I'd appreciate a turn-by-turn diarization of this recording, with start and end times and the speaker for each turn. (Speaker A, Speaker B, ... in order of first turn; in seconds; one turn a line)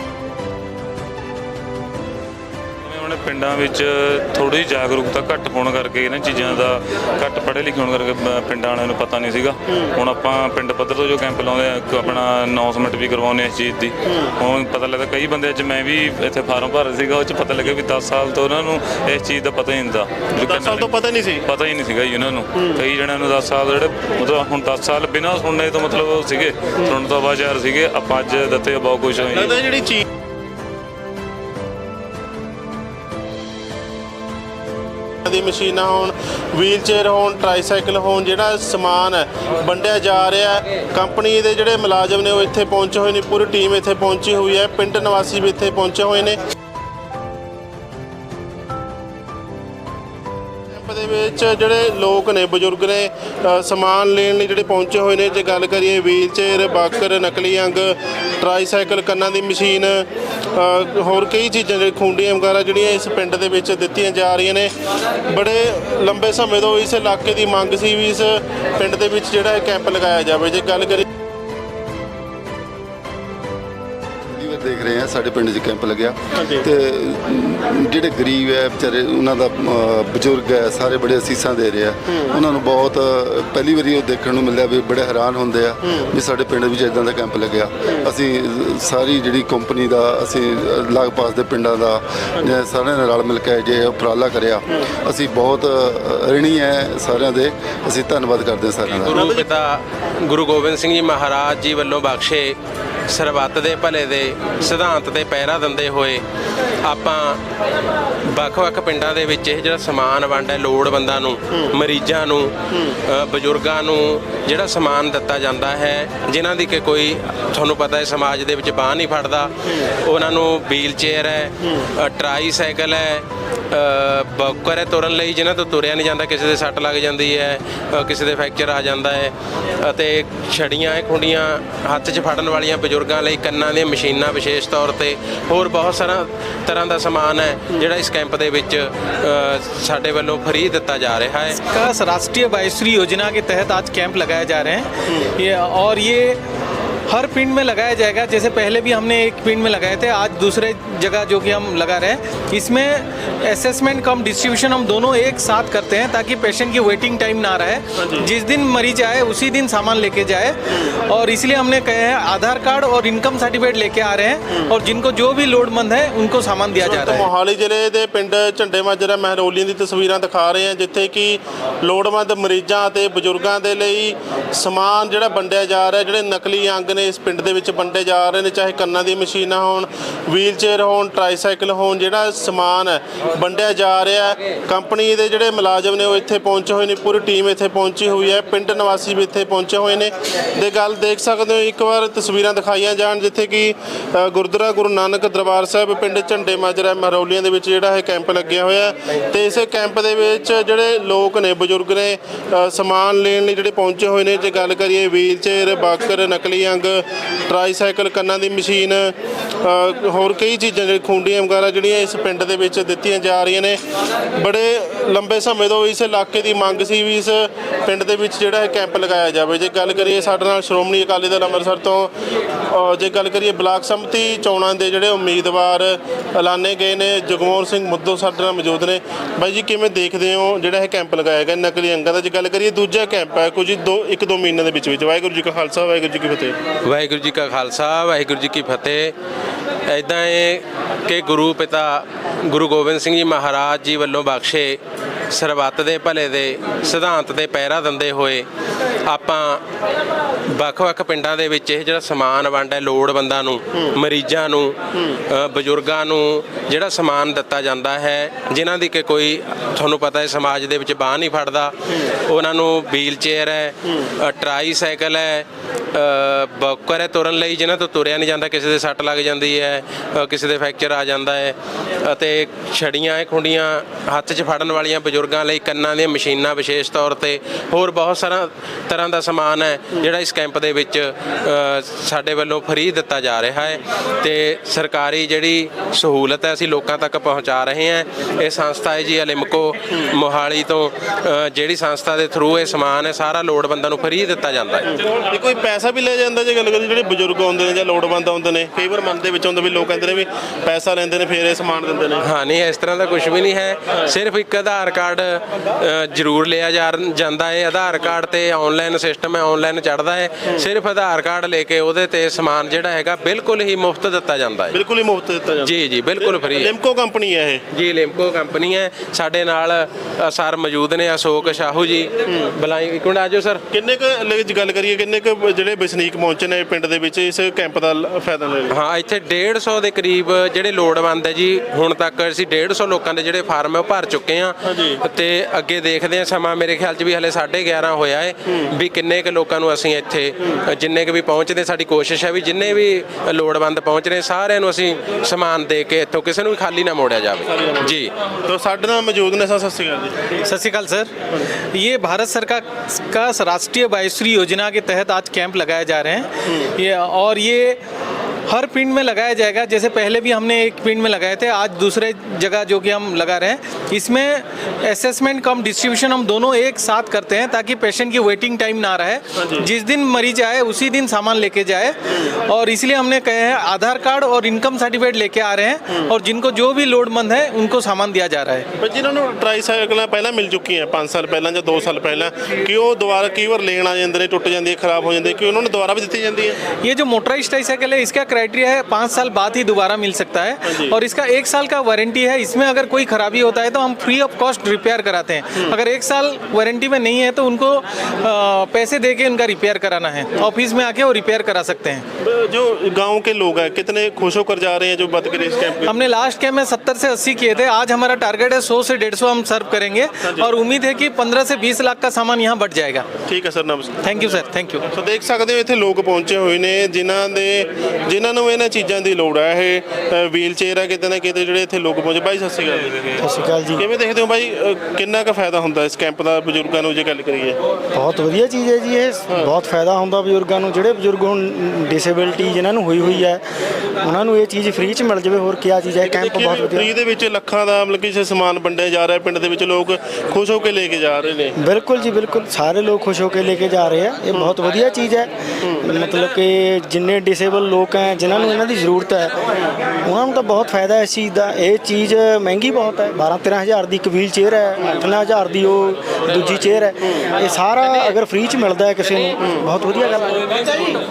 Speaker A: 2.8-20.9
Speaker B: 6.4-6.6
Speaker B: 9.7-9.9
Speaker B: 14.1-14.3
Speaker B: 20.4-21.4
Speaker A: 21.4-29.6
Speaker B: 29.3-30.0
Speaker B: 35.2-46.4
Speaker B: 50.7-64.7
Speaker B: 65.3-71.0
Speaker C: 74.3-99.2
Speaker B: 76.3-76.7
Speaker B: 85.8-86.1
Speaker D: 98.8-102.6
Speaker B: 99.1-99.4
Speaker D: 103.1-106.2
Speaker D: 106.8-107.4
Speaker D: 108.3-112.5
Speaker D: 113.1-141.6
Speaker E: 141.5-146.4
Speaker E: 147.1-167.3
Speaker B: 158.0-158.3
Speaker B: 166.7-213.8
Speaker B: 214.3-222.1
Speaker B: 222.7-236.6
Speaker D: 236.8-239.1
Speaker D: 239.9-244.8
Speaker D: 245.3-248.5
Speaker D: 249.1-249.6
Speaker D: 250.5-295.0
Speaker B: 294.9-302.2
Speaker D: 302.2-314.8
Speaker B: 314.7-317.6
Speaker D: 315.6-316.7
Speaker D: 317.7-323.6
Speaker B: 323.7-328.7
Speaker D: 328.7-348.1
Speaker B: 334.6-335.0
Speaker B: 347.6-347.9
Speaker B: 348.4-350.2
Speaker E: 350.4-357.8
Speaker E: 358.5-378.7
Speaker B: 369.4-369.7
Speaker B: 378.8-386.6
Speaker E: 386.8-402.0
Speaker B: 390.6-390.9
Speaker B: 402.2-405.9
Speaker E: 405.8-413.1
Speaker B: 410.2-410.5
Speaker B: 413.3-414.1
Speaker E: 414.0-414.9
Speaker B: 414.9-423.0
Speaker F: 423.2-423.8
Speaker B: 423.8-427.6
Speaker F: 427.9-433.4
Speaker B: 433.0-433.3
Speaker F: 434.0-436.9
Speaker B: 436.0-441.6
Speaker F: 441.6-445.3
Speaker F: 445.8-449.3
Speaker F: 450.0-460.9
Speaker B: 459.4-459.6